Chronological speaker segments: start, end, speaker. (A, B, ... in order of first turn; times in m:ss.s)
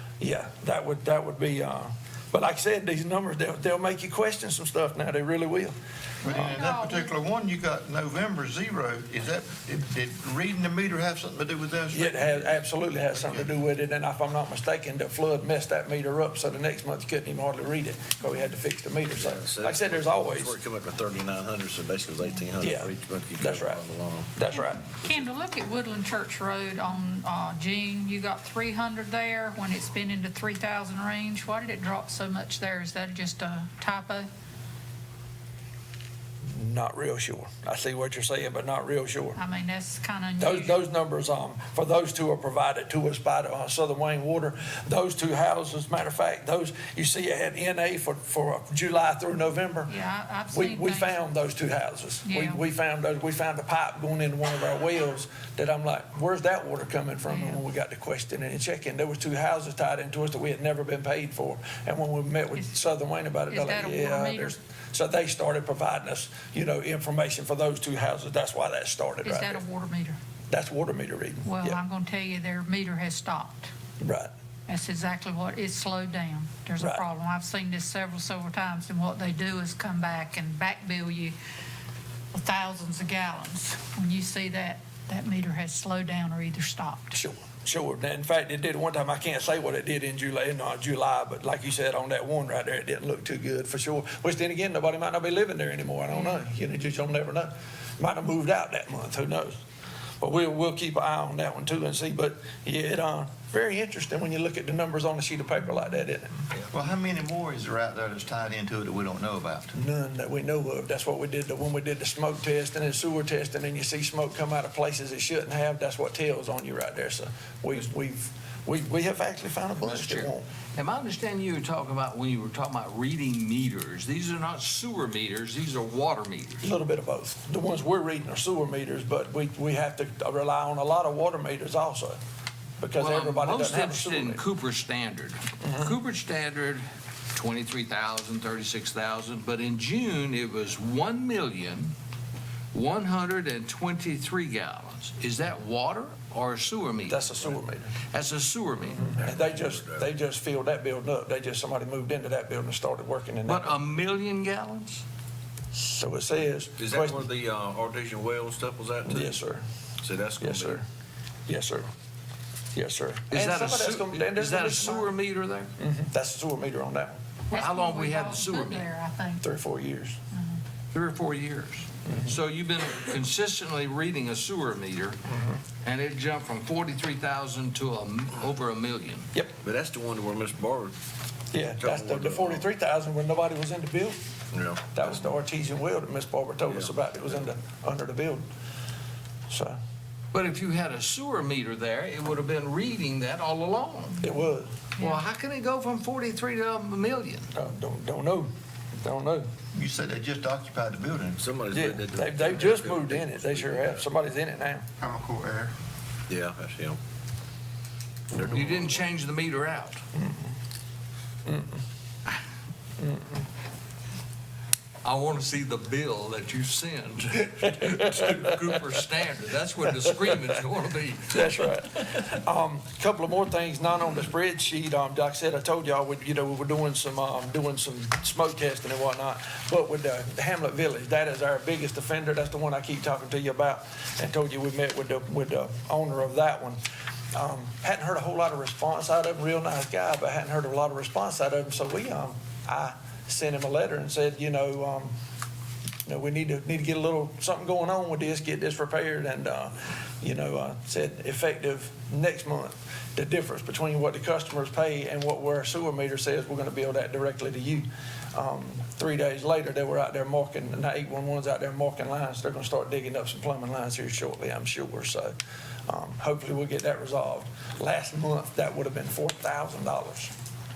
0:00.2-0:05.7 A
0:06.2-0:12.6 B
0:06.2-0:07.1 C
0:11.9-0:20.5 A
0:13.2-0:13.5 B
0:19.1-0:24.3 D
0:22.6-0:24.9 A
0:24.5-0:34.3 C
0:36.5-0:39.4 A
0:39.4-0:40.8 C
0:40.4-0:49.9 A
0:49.9-0:51.2 C
0:50.5-1:09.6 A
0:52.2-0:52.6 C
0:57.2-0:57.6 C
1:03.5-1:04.6 C
1:09.2-1:10.2 C
1:10.5-1:11.8 A
1:11.4-1:13.7 C
1:14.0-1:14.3 A
1:14.7-1:21.3 C
1:22.3-1:27.2 C
1:27.1-1:39.6 A
1:40.2-1:46.4 A
1:46.7-1:49.7 B
1:49.7-2:00.4 A
1:59.8-2:06.7 E
2:06.6-2:12.2 A
2:12.8-2:14.4 A
2:13.0-2:21.9 E
2:22.7-2:27.4 E
2:27.1-2:27.9 A
2:28.1-2:29.2 E
2:29.0-2:33.8 A
2:29.1-2:30.1 D
2:33.4-2:35.0 E
2:35.7-2:37.2 A
2:36.8-2:39.4 D
2:39.0-2:39.6 A
2:40.0-2:40.8 D
2:40.4-2:40.8 A
2:41.5-2:41.9 A
2:42.7-2:45.1 A
2:43.3-2:45.7 E
2:45.8-2:47.2 A
2:47.5-2:48.9 E
2:47.5-2:49.4 C
2:49.4-2:50.2 A
2:50.3-2:50.6 C
2:50.9-2:55.2 E
2:52.0-2:52.3 A
2:55.3-2:55.6 A
2:55.8-2:59.3 E
2:59.6-3:00.9 D
3:01.5-3:04.2 A
3:01.8-3:02.7 D
3:04.5-3:05.0 D
3:04.9-3:08.4 A
3:09.5-3:09.8 A
3:10.3-3:14.2 E
3:14.2-3:14.7 A
3:15.0-3:15.2 C
3:15.0-3:17.5 E
3:17.5-3:19.5 A
3:19.7-3:21.4 B
3:21.4-3:24.0 D
3:21.7-3:24.8 A
3:25.0-3:25.7 B
3:26.3-3:27.0 D
3:28.3-3:29.0 D
3:28.5-3:30.0 E
3:30.1-3:30.4 A
3:31.5-3:31.7 A
3:35.0-3:42.3 E
3:37.6-3:38.4 A
3:41.3-3:56.8 A
3:57.3-4:05.1 A
4:06.0-4:25.3 A
4:25.9-4:30.3 A